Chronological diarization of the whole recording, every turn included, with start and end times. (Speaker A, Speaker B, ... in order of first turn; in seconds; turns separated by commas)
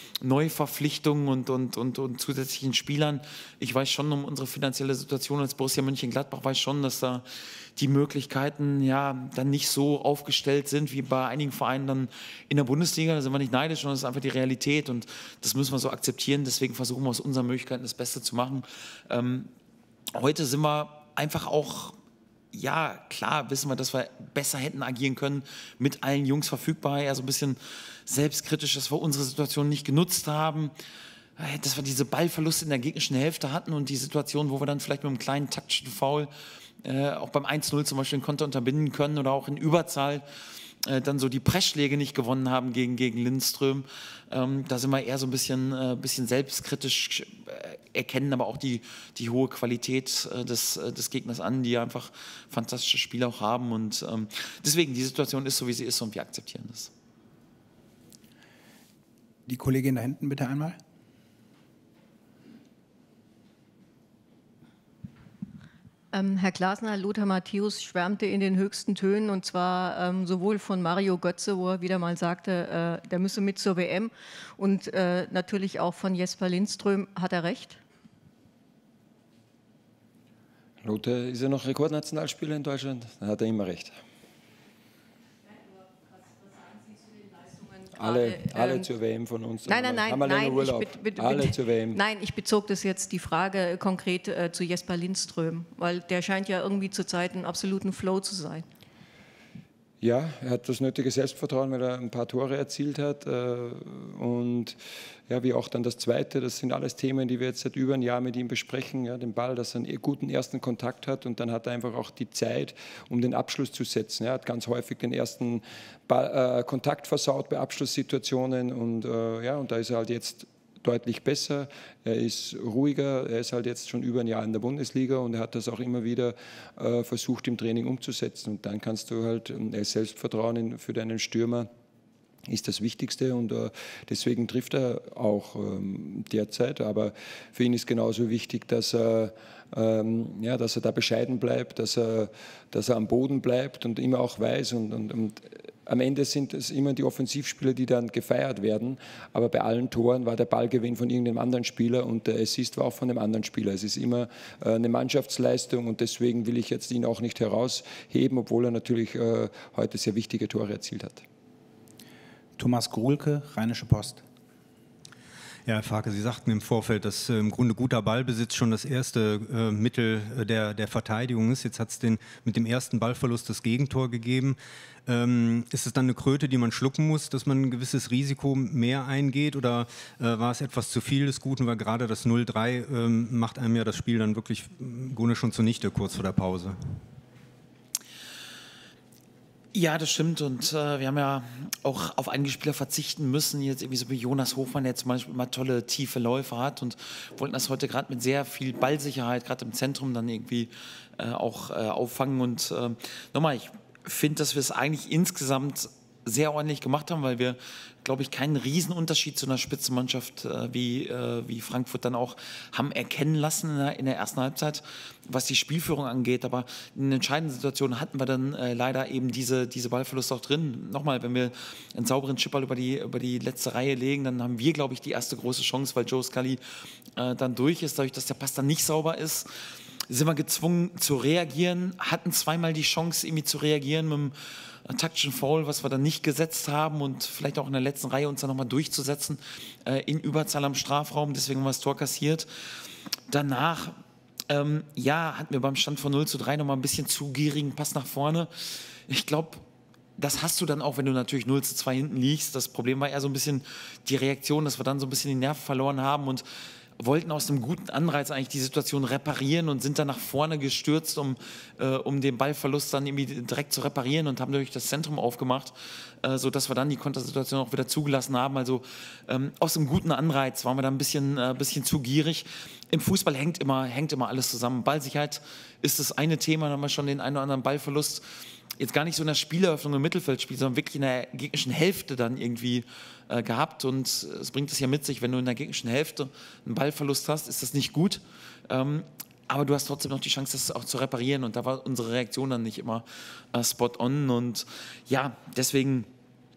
Speaker A: 0.2-19.5, Speaker A: 20.1-22.0, Speaker A: 22.5-30.7, Speaker A: 31.4-36.3, Speaker A: 36.8-40.2, Speaker A: 40.8-56.9, Speaker B: 59.5-60.8, Speaker C: 66.1-77.8, Speaker D: 80.8-83.9, Speaker C: 87.1-88.9, Speaker D: 87.9-92.0, Speaker C: 89.7-98.6, Speaker D: 100.0-131.7, Speaker D: 132.5-161.2, Speaker B: 162.6-164.2, Speaker E: 165.7-186.7, Speaker A: 189.7-226.6, Speaker A: 227.2-229.5, Speaker A: 230.1-234.3, Speaker A: 234.8-242.5, Speaker A: 243.3-249.7, Speaker A: 250.2-256.4, Speaker A: 257.0-278.2, Speaker A: 278.8-296.1